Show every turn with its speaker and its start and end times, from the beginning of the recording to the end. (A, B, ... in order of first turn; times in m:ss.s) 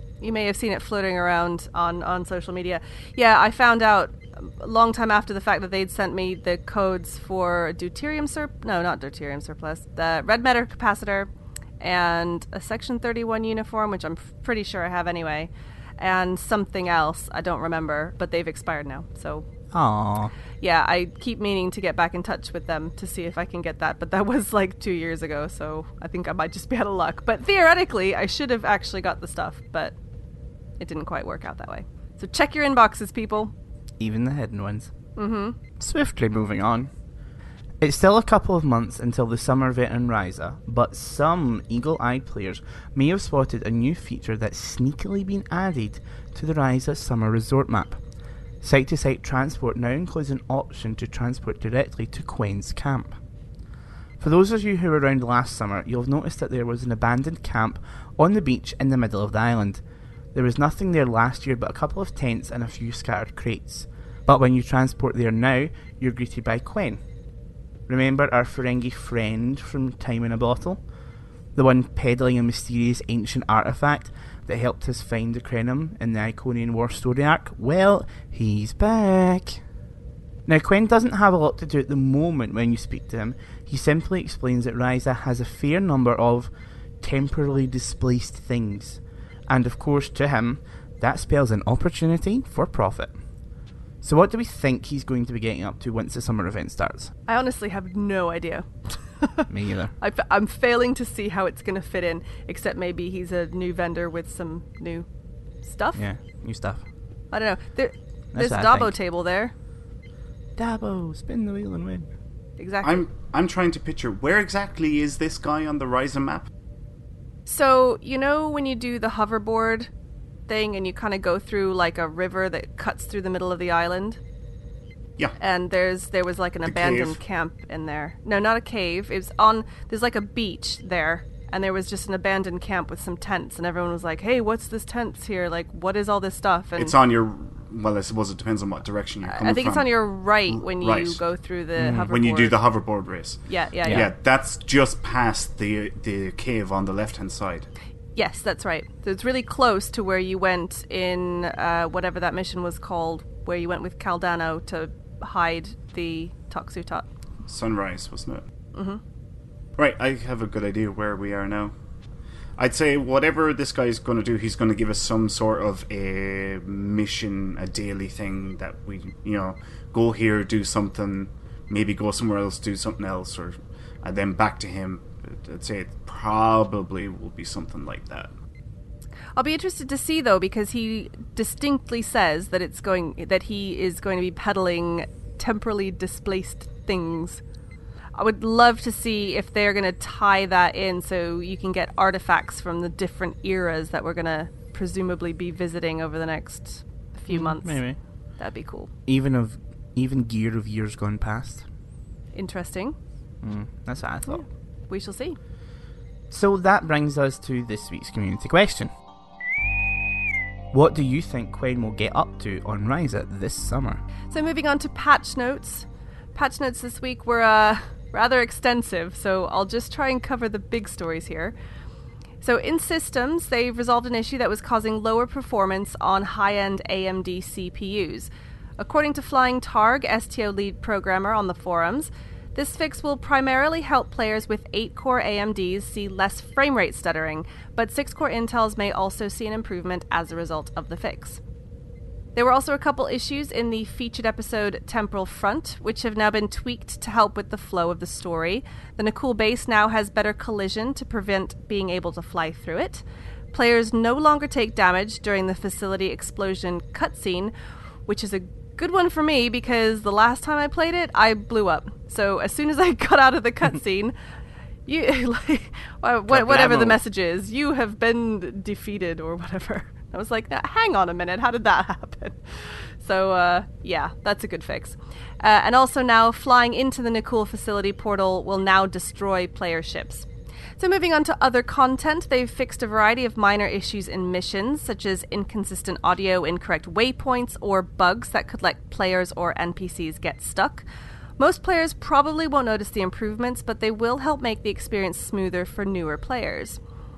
0:00.2-0:19.5 A
0:19.7-0:20.3 B
0:20.6-0:30.0 A
0:30.8-0:33.5 A
0:34.0-0:34.9 B
0:35.2-0:35.6 A
0:35.8-0:36.9 B
0:37.8-0:48.0 B
0:48.6-0:53.2 B
0:54.2-0:59.8 B
1:00.3-1:07.0 B
1:07.9-1:10.8 B
1:11.6-1:19.6 B
1:20.5-1:33.2 B
1:34.0-1:37.1 B
1:37.3-1:39.4 A
1:39.5-1:39.9 B
1:40.0-1:45.1 A
1:45.6-1:46.0 A
1:45.9-1:46.8 B
1:47.3-1:49.5 A
1:48.3-1:48.9 B
1:50.6-1:52.1 B
1:52.6-1:53.0 A
1:52.8-1:56.5 C
1:57.5-1:59.9 A
2:00.5-2:04.2 A
2:05.4-2:17.0 A
2:06.6-2:07.2 C
2:16.8-2:21.2 C
2:19.2-2:22.6 A
2:21.8-2:22.1 B
2:22.0-2:27.7 C
2:23.5-2:24.1 A
2:28.2-2:37.1 A
2:37.4-2:38.4 C
2:38.7-2:39.0 A
2:39.8-2:41.8 C
2:42.6-2:58.3 C
2:59.4-3:07.4 A
3:08.2-3:17.9 A
3:17.3-3:18.0 B
3:18.4-3:18.9 A
3:19.1-3:21.7 B
3:22.3-3:23.0 A
3:23.4-3:24.4 B
3:24.3-3:25.4 A
3:26.3-3:28.9 B
3:30.7-3:34.0 B
3:34.3-3:41.6 A
3:42.4-4:01.4 A
4:02.4-4:17.5 A
4:18.1-4:24.2 A
4:24.9-4:40.3 A
4:26.3-4:27.0 C
4:40.8-4:50.9 A
4:51.4-4:56.8 A